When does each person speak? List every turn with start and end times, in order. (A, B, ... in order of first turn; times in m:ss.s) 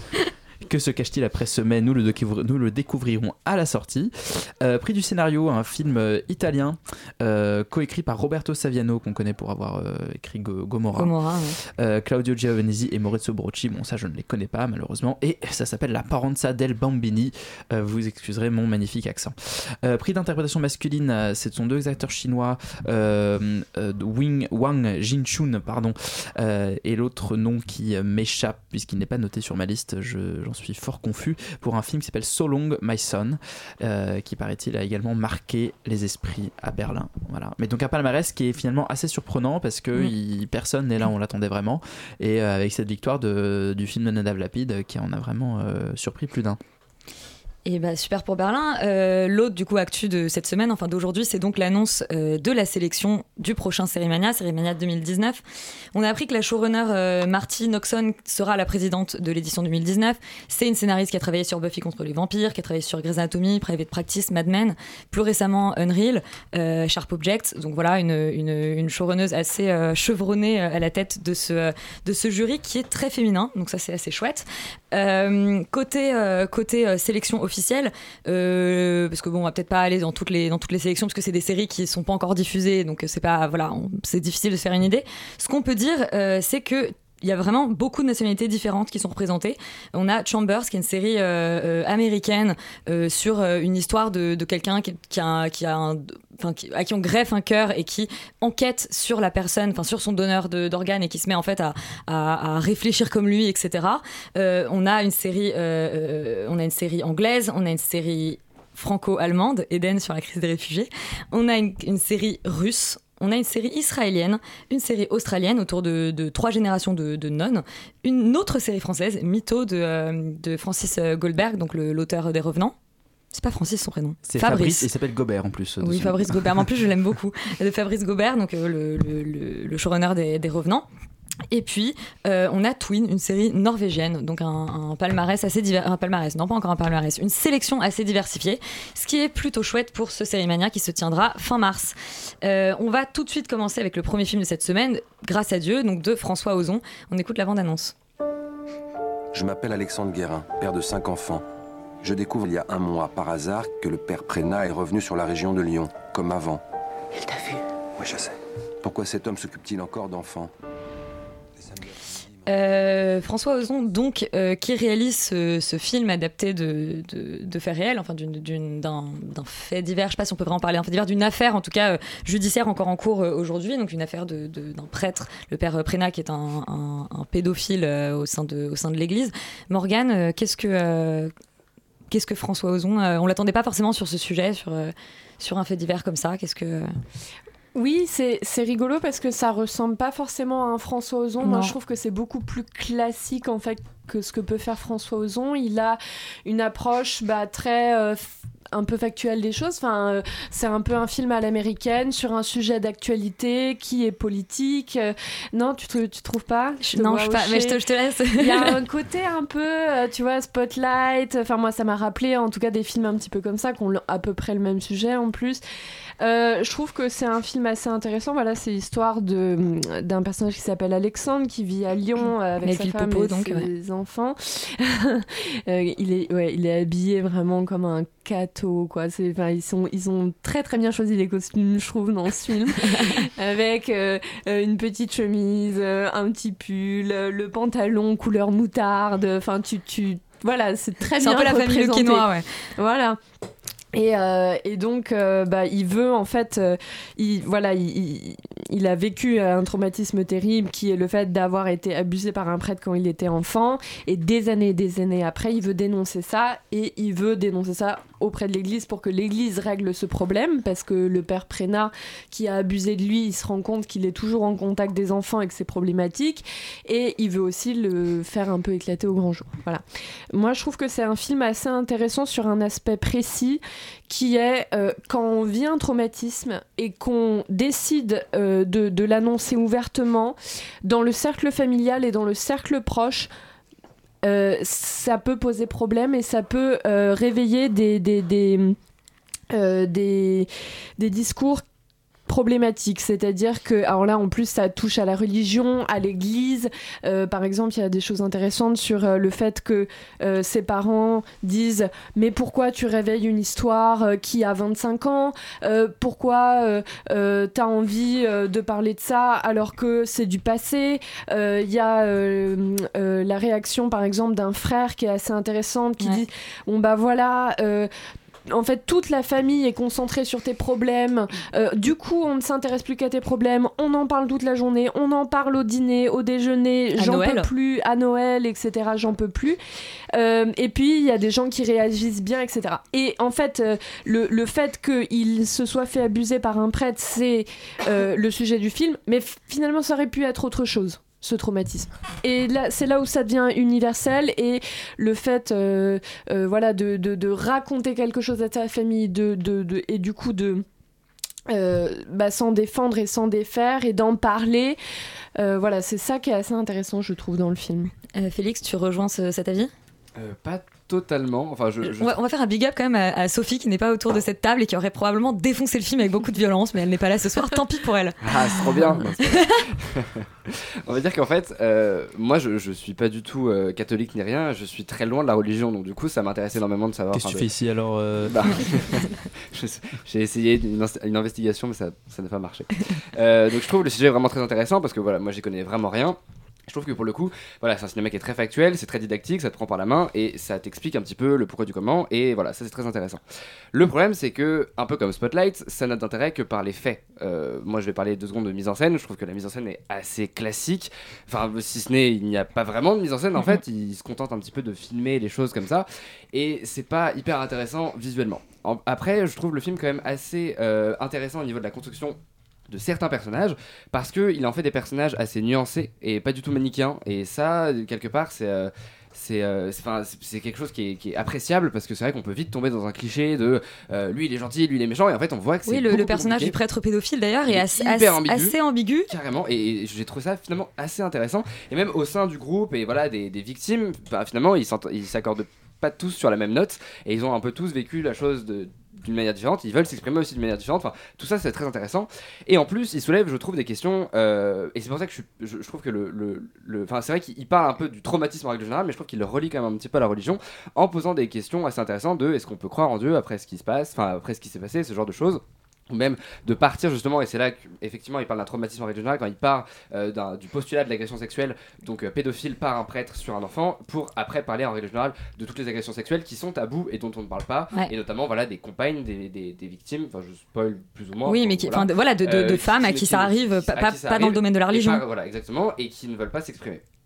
0:00.6-0:46.6 A
0:10.9-0:11.6 B
0:47.6-0:55.4 B
0:55.9-2:02.8 B
2:03.3-2:04.9 B
2:04.2-2:06.6 A
2:05.8-2:10.9 B
2:11.5-2:27.9 B
2:29.3-2:31.4 C
2:32.0-2:36.6 C
2:38.0-2:38.3 C
2:38.8-2:40.5 C
2:42.4-3:01.3 B
3:02.1-3:06.9 B
3:07.7-3:27.8 D
3:11.4-3:11.8 B
3:26.8-3:28.7 B
3:28.4-3:35.6 D
3:36.2-4:03.2 D
3:42.6-3:43.7 B
4:01.2-4:02.5 B
4:03.9-4:43.3 D
4:44.2-4:48.8 D
4:49.5-4:51.6 D
4:52.3-5:17.9 D
5:18.5-5:29.6 D
5:27.0-5:27.5 B
5:30.1-5:50.6 D
5:51.5-5:54.8 D
5:55.4-5:57.9 D
5:58.1-5:59.7 B
6:00.2-6:02.1 E
6:01.9-6:09.6 B
6:08.2-6:17.4 E
6:17.1-6:18.4 A
6:18.3-6:26.2 E
6:26.7-6:33.2 E
6:33.7-6:52.2 E
6:52.7-7:06.6 E
7:05.7-7:09.1 B
7:07.5-7:08.5 E
7:09.1-7:56.8 E
7:51.2-7:55.0 B